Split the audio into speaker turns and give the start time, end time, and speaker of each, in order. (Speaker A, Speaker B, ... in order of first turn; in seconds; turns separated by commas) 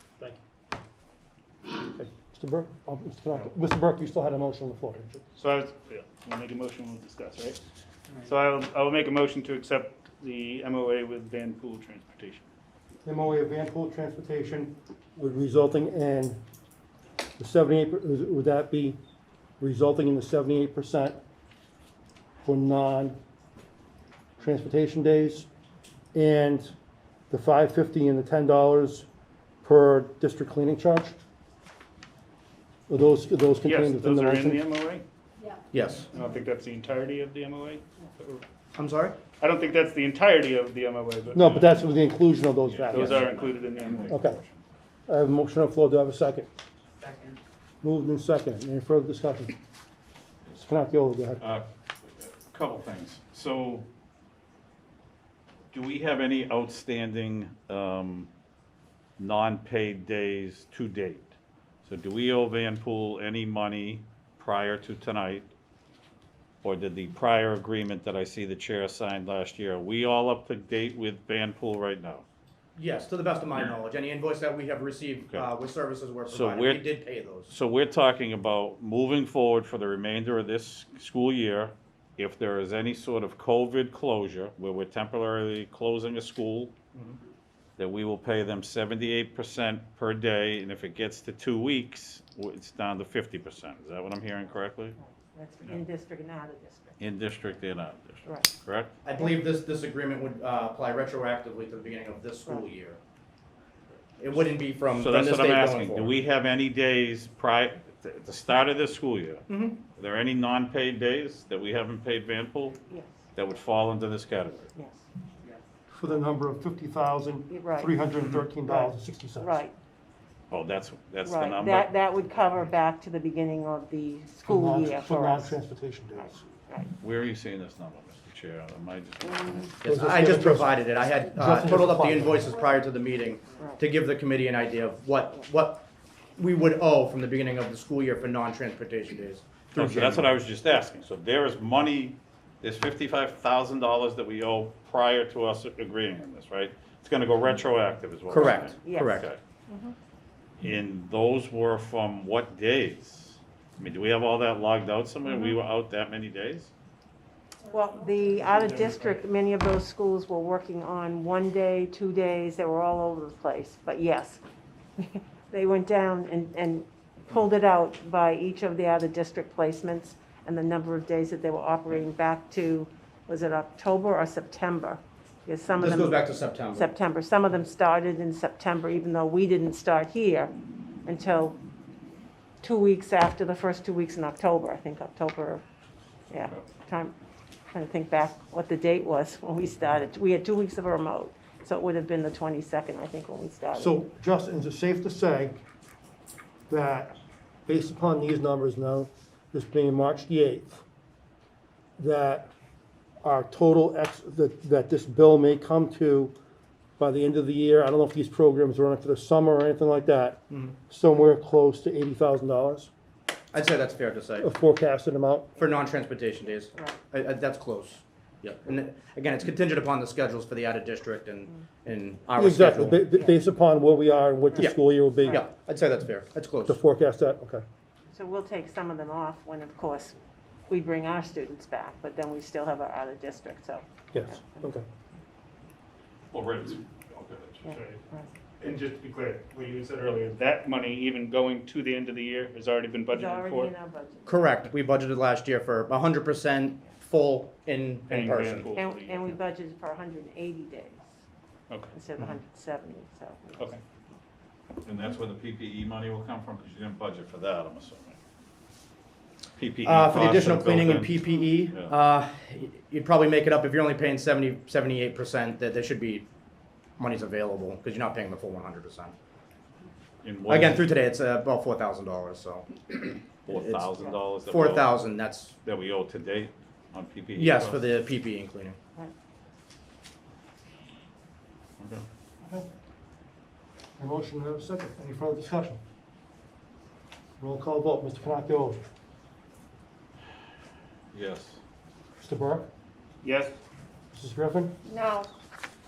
Speaker A: 1.8-5.2, Speaker B: 5.3-7.6, Speaker B: 8.2-12.4, Speaker A: 13.0-16.4, Speaker A: 17.4-19.0, Speaker A: 19.6-21.2, Speaker A: 22.4-23.1, Speaker A: 24.4-25.5, Speaker A: 26.1-26.7, Speaker A: 27.3-29.1, Speaker A: 29.6-31.1, Speaker A: 32.9-34.7, Speaker B: 33.6-35.0, Speaker C: 35.7-36.1, Speaker B: 36.1-38.4, Speaker C: 38.8-39.2, Speaker B: 39.4-41.7, Speaker A: 41.3-43.3, Speaker D: 42.6-44.6, Speaker B: 42.9-44.3, Speaker A: 44.1-44.4, Speaker A: 45.1-46.5, Speaker A: 47.8-49.6, Speaker A: 50.5-51.4, Speaker D: 51.4-53.9, Speaker D: 55.7-58.3, Speaker D: 59.2-61.3, Speaker D: 61.8-65.5, Speaker D: 66.6-72.2, Speaker C: 72.8-77.5, Speaker D: 76.3-76.8, Speaker D: 77.5-86.7, Speaker D: 87.8-95.0, Speaker E: 95.0-97.0, Speaker D: 97.0-98.9, Speaker E: 98.2-98.5, Speaker C: 99.0-103.0, Speaker C: 104.2-106.1, Speaker D: 104.9-112.8, Speaker C: 109.5-109.8, Speaker E: 112.9-113.2, Speaker D: 113.3-114.7, Speaker E: 114.7-115.0, Speaker A: 115.9-119.6, Speaker E: 117.5-118.0, Speaker D: 118.2-118.5, Speaker E: 118.6-119.7, Speaker D: 120.5-121.9, Speaker E: 121.2-125.5, Speaker A: 124.4-126.4, Speaker E: 126.2-126.9, Speaker D: 127.0-129.7, Speaker C: 129.8-140.3, Speaker A: 129.8-130.8, Speaker A: 131.3-132.6, Speaker D: 139.7-149.4, Speaker C: 148.3-149.3, Speaker E: 148.6-149.9, Speaker D: 150.6-156.7, Speaker E: 155.2-155.5, Speaker E: 157.7-164.4, Speaker B: 158.3-159.2, Speaker E: 165.0-180.5, Speaker C: 175.8-176.9, Speaker E: 181.0-181.6, Speaker E: 182.6-185.6, Speaker E: 186.3-187.2, Speaker E: 187.7-194.0, Speaker A: 193.8-195.6, Speaker A: 196.7-200.8, Speaker A: 202.0-202.5, Speaker A: 203.2-206.3, Speaker A: 207.0-212.9, Speaker C: 210.5-210.8, Speaker C: 213.5-214.5, Speaker A: 214.4-215.5, Speaker C: 215.6-223.0, Speaker E: 216.7-217.0, Speaker A: 222.4-225.4, Speaker E: 223.1-223.4, Speaker C: 224.6-226.8, Speaker E: 225.2-225.5, Speaker A: 226.7-227.6, Speaker E: 228.1-230.2, Speaker E: 230.7-234.7, Speaker A: 234.1-234.8, Speaker D: 236.3-237.7, Speaker E: 237.7-238.3, Speaker B: 237.7-238.0, Speaker B: 238.6-243.7, Speaker E: 243.1-244.6, Speaker C: 244.2-248.7, Speaker B: 248.1-249.4, Speaker E: 248.7-251.1, Speaker B: 251.7-251.9, Speaker E: 251.9-253.7, Speaker B: 253.6-253.8, Speaker D: 254.8-258.2, Speaker D: 259.6-261.9, Speaker C: 259.8-266.3, Speaker C: 267.0-269.1, Speaker D: 270.2-270.9, Speaker C: 270.5-275.6, Speaker D: 273.4-275.0, Speaker D: 275.6-277.9, Speaker C: 277.3-278.8, Speaker D: 281.8-282.0, Speaker A: 284.0-285.8, Speaker A: 287.4-288.8, Speaker D: 291.1-291.6, Speaker A: 292.2-292.7, Speaker B: 293.2-293.6, Speaker A: 294.1-294.8, Speaker E: 294.8-295.3